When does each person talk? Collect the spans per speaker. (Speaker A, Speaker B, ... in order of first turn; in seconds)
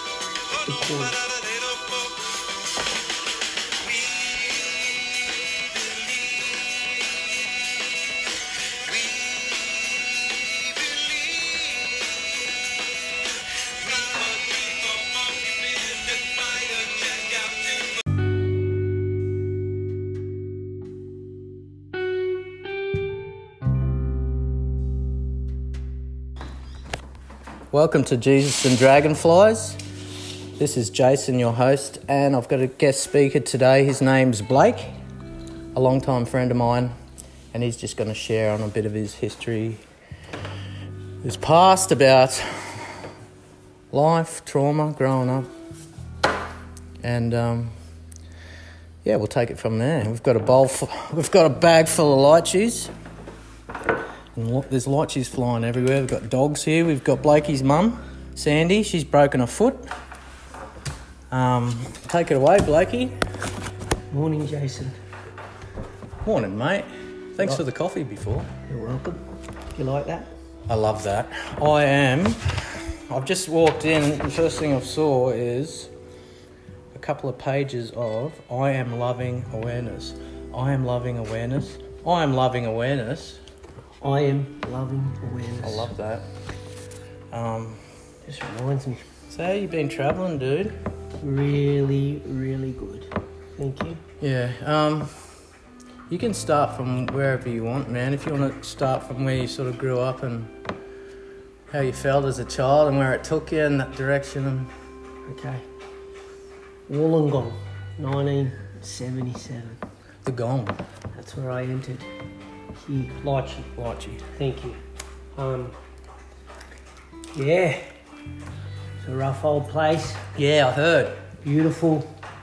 Speaker A: 0.4-2.6, 3.8-7.3, 8.5-18.0
Speaker B: 0.7-1.1, 64.1-65.0, 68.7-69.2, 69.7-70.3, 84.0-85.9, 88.2-89.0, 91.2-94.0, 105.3-105.7, 106.9-109.8, 111.1-112.1, 112.8-113.7, 114.3-114.8, 115.4-115.8, 117.3-117.8, 119.0-120.3, 121.4-122.1
Speaker C: 27.7-29.8, 30.6-35.0, 35.7-36.9, 37.5-39.8, 41.2-42.9, 43.9-45.5, 47.0-47.8, 49.0-52.9, 54.4-59.9, 61.3-63.2, 66.2-68.5, 70.7-75.9, 76.9-83.4, 85.6-86.3, 87.3-87.8, 89.3-90.8, 94.2-95.3, 96.1-100.5, 101.7-104.7, 110.2-110.8, 113.8-114.2, 120.3-121.2